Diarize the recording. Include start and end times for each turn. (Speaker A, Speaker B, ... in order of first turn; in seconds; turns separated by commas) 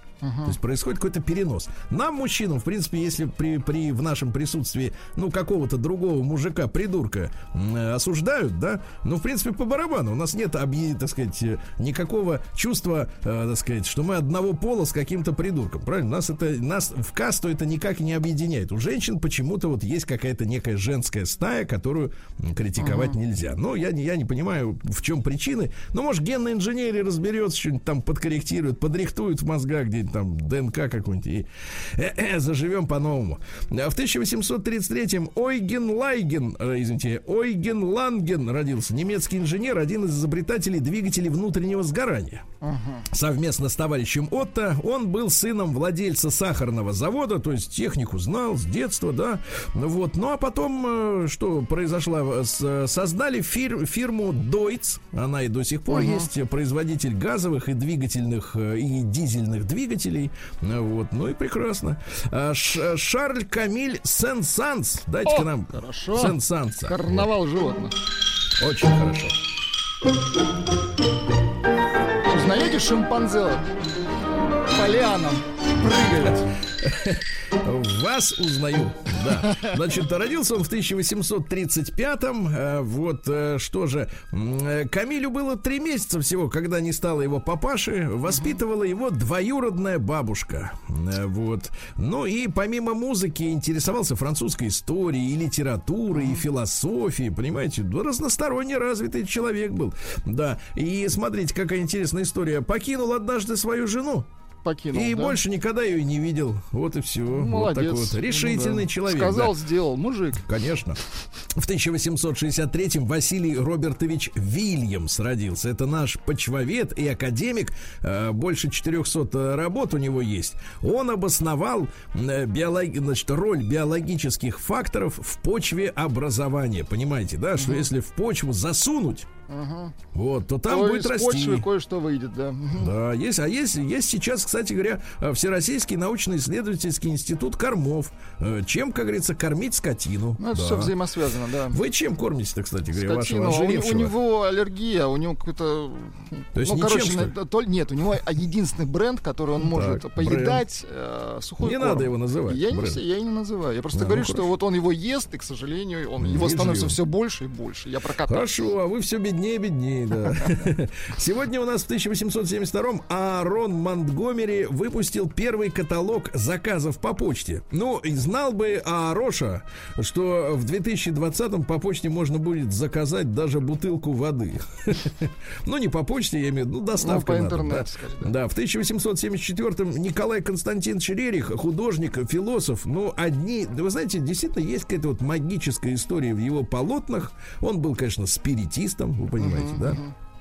Speaker A: 0.2-0.5, Speaker B: 0.4-42.4, Speaker A: 22.8-23.1, Speaker A: 42.6-43.0, Speaker B: 43.1-67.2, Speaker A: 55.9-56.3, Speaker A: 65.2-67.9, Speaker B: 68.6-69.4, Speaker A: 72.3-73.7, Speaker A: 74.7-76.5, Speaker B: 76.8-104.3, Speaker A: 96.1-96.4, Speaker A: 104.6-105.4, Speaker B: 104.9-109.5, Speaker A: 107.3-110.4, Speaker B: 110.4-111.0, Speaker B: 111.5-129.3, Speaker A: 127.6-127.9, Speaker A: 129.5-129.9, Speaker B: 130.1-131.7, Speaker A: 130.7-132.9, Speaker B: 132.8-140.9, Speaker A: 140.4-141.8, Speaker B: 141.7-144.1, Speaker A: 142.9-158.5, Speaker B: 146.6-147.3, Speaker B: 149.6-150.6, Speaker B: 151.6-153.0, Speaker B: 153.9-154.5, Speaker B: 156.2-157.0, Speaker B: 158.2-190.0, Speaker A: 177.0-178.3, Speaker A: 189.4-190.1